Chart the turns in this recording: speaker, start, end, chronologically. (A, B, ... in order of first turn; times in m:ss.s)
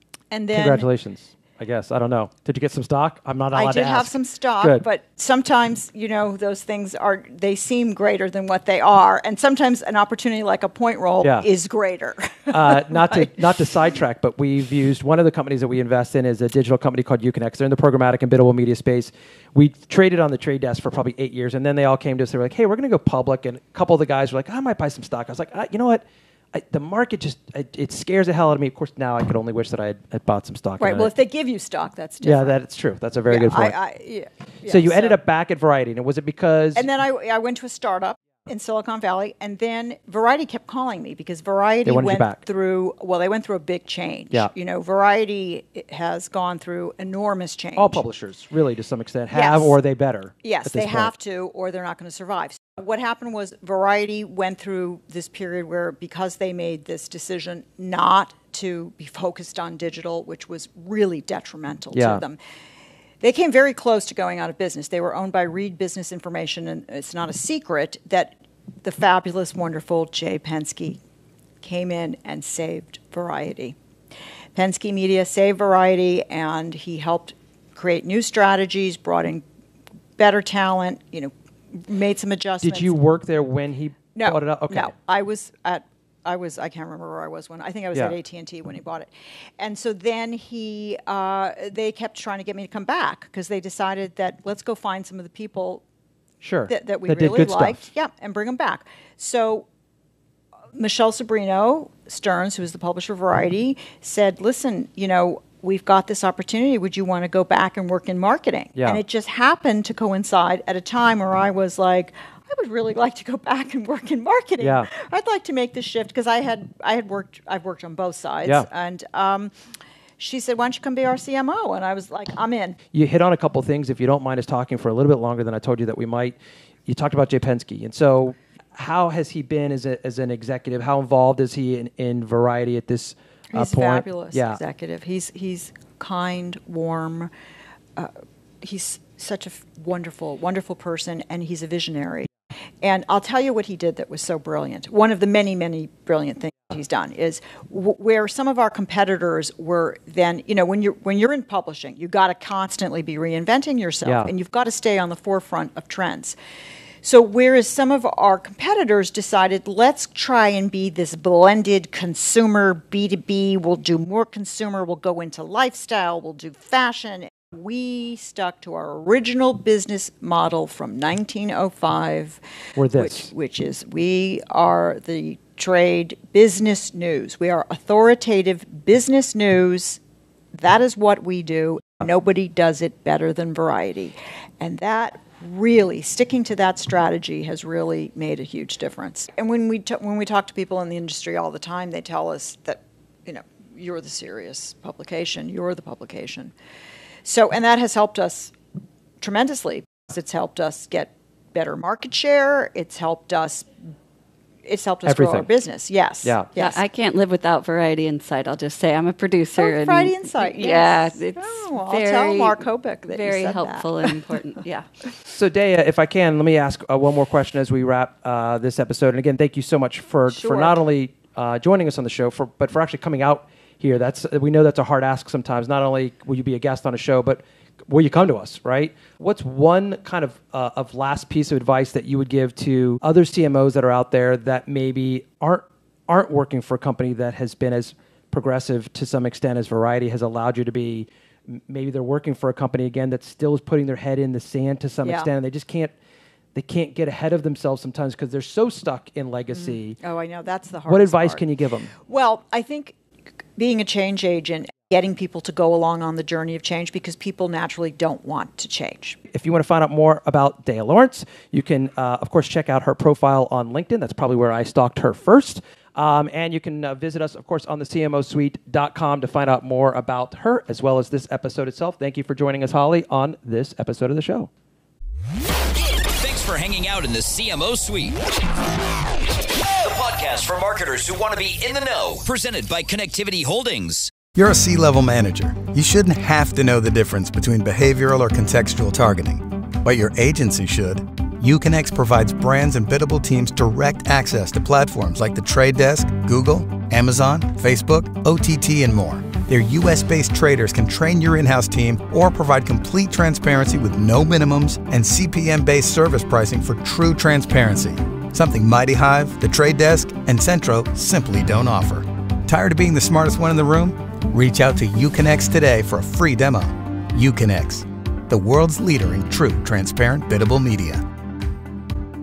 0:00.3-0:00.8 A
0:00.5-0:04.8 B
0:03.5-0:13.2 A
0:11.2-0:11.5 B
0:12.5-0:31.1 B
0:30.8-0:32.6 A
0:32.2-0:33.8 B
0:33.3-0:35.2 A
0:34.7-0:36.9 B
0:36.7-0:48.0 A
0:41.8-0:42.4 B
0:47.8-0:51.1 B
0:49.3-0:49.7 A
0:50.4-1:02.4 A
1:01.9-1:02.2 B
1:03.2-1:11.0 A
1:11.6-1:13.8 A
1:14.6-1:19.4 A
1:20.2-1:23.0 A
1:22.6-1:24.9 B
1:24.1-1:35.8 A
1:36.4-1:37.9 B
1:36.7-1:39.6 A
1:40.7-1:59.5 A
1:54.6-1:54.9 B
2:00.2-2:02.8 A
2:02.9-2:14.6 B
2:13.5-2:17.3 A
2:18.0-2:22.3 A
2:22.8-2:36.4 A
2:34.0-2:34.3 B
2:37.0-2:52.4 A
2:52.8-2:53.3 B
2:53.0-3:00.0 A
3:00.5-3:16.5 A
3:17.2-3:18.5 A
3:19.2-3:23.7 A
3:24.6-3:26.8 A
3:25.0-3:25.5 B
3:26.2-3:26.5 B
3:26.6-3:34.9 C
3:29.6-3:34.2 A
3:35.2-4:05.9 B
3:40.3-3:40.7 A
4:06.6-4:10.0 B
4:09.5-4:11.4 A
4:10.9-4:11.9 B
4:12.0-4:12.9 A
4:13.6-4:19.2 A
4:19.3-4:34.5 B
4:35.7-4:38.2 D
4:39.3-4:44.1 D
4:44.4-5:21.0 E